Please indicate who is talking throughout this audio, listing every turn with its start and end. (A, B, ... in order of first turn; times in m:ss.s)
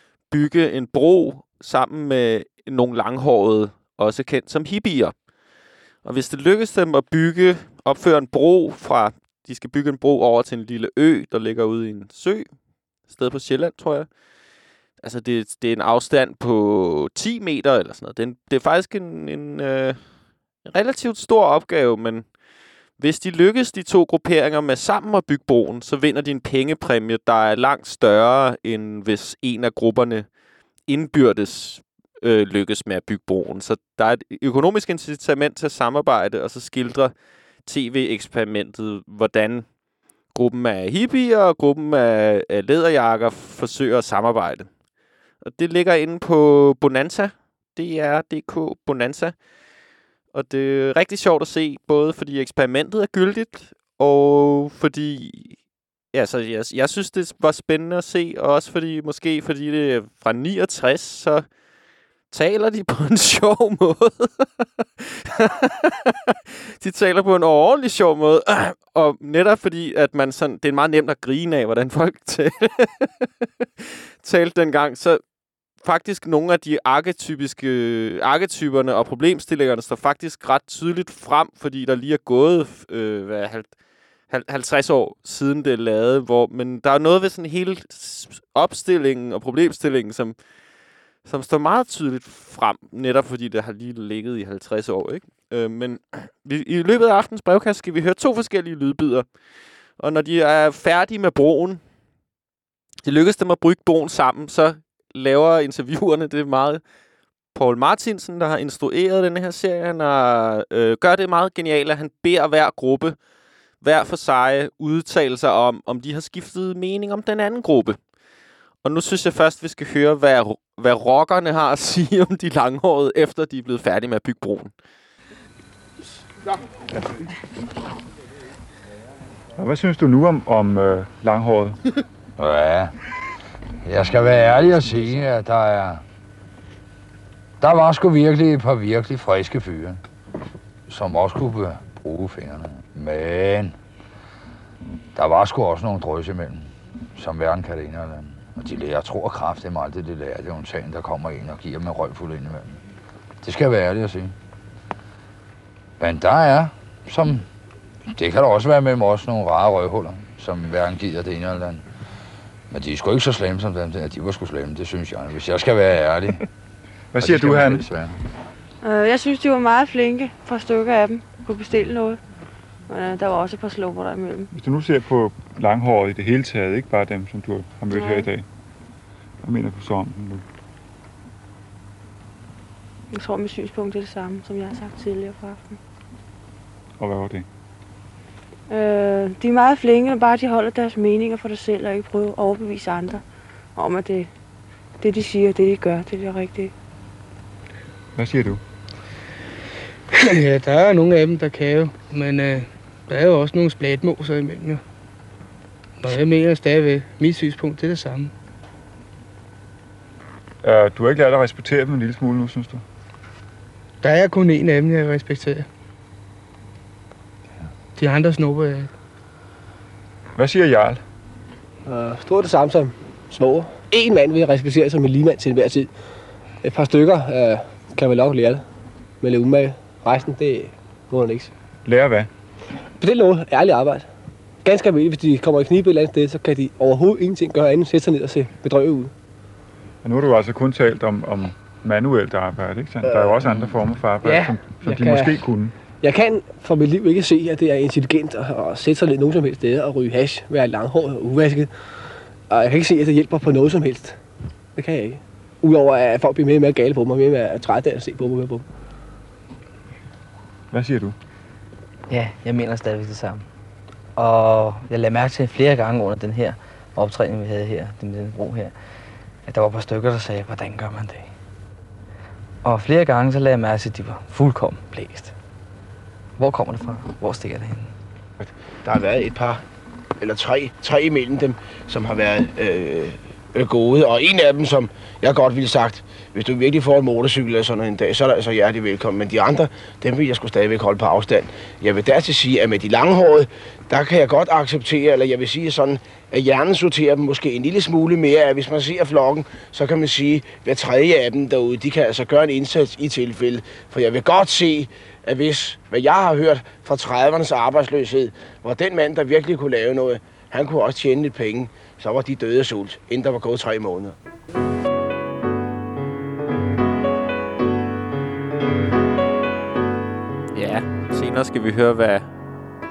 0:00.3-0:05.1 A
0:06.0-0:12.5 A
0:13.1-0:14.1 A
0:15.0-0:20.0 A
0:20.6-0:22.2 A
0:23.0-0:30.3 A
0:30.9-0:37.1 A
0:37.6-0:39.7 A
0:40.3-0:44.7 A
0:45.4-0:49.3 A
0:50.3-0:55.6 A
0:56.1-1:01.5 A
1:02.3-1:04.5 A
1:05.0-1:13.3 A
1:13.8-1:15.2 A
1:15.8-1:23.7 A
1:24.3-1:30.4 A
1:31.2-1:39.2 A
1:40.0-1:41.8 A
1:43.0-1:46.8 A
1:47.5-1:53.2 A
1:53.8-1:58.0 A
1:58.8-2:04.7 A
2:09.6-2:11.8 B
2:12.4-2:12.9 C
2:13.8-2:16.0 C
2:17.6-2:20.0 C
2:20.9-2:23.7 C
2:25.1-2:32.8 C
2:33.4-2:34.3 C
2:36.0-2:37.4 C
2:38.1-2:41.8 C
2:42.7-2:46.4 C
2:47.1-2:47.9 B
2:47.2-2:48.1 C
2:48.8-2:52.2 D
2:52.9-2:54.5 D
2:54.5-2:58.4 B
2:57.9-2:58.3 D
2:59.4-3:00.4 B
3:03.1-3:05.8 D
3:07.0-3:07.4 B
3:08.7-3:13.2 D
3:13.8-3:14.3 D
3:15.0-3:16.7 D
3:18.2-3:18.6 B
3:20.1-3:24.8 E
3:26.0-3:28.3 E
3:30.6-3:32.8 B
3:34.0-3:35.6 E
3:38.0-3:38.9 E
3:40.4-3:41.0 B
3:41.8-3:45.9 F
3:46.6-3:48.6 F
3:49.2-3:51.5 F
3:51.8-3:52.3 B
3:53.0-3:54.1 F
3:54.6-3:59.1 F
4:00.0-4:05.7 B
4:03.0-4:12.0 F
4:12.5-4:14.2 F
4:14.8-4:18.6 F
4:20.7-4:21.2 B
4:22.1-4:23.5 G
4:24.2-4:28.7 G
4:29.4-4:31.3 G
4:32.6-4:35.3 G
4:36.4-4:37.9 G
4:38.8-4:39.6 H
4:40.2-5:14.2 H
5:20.5-5:22.3 A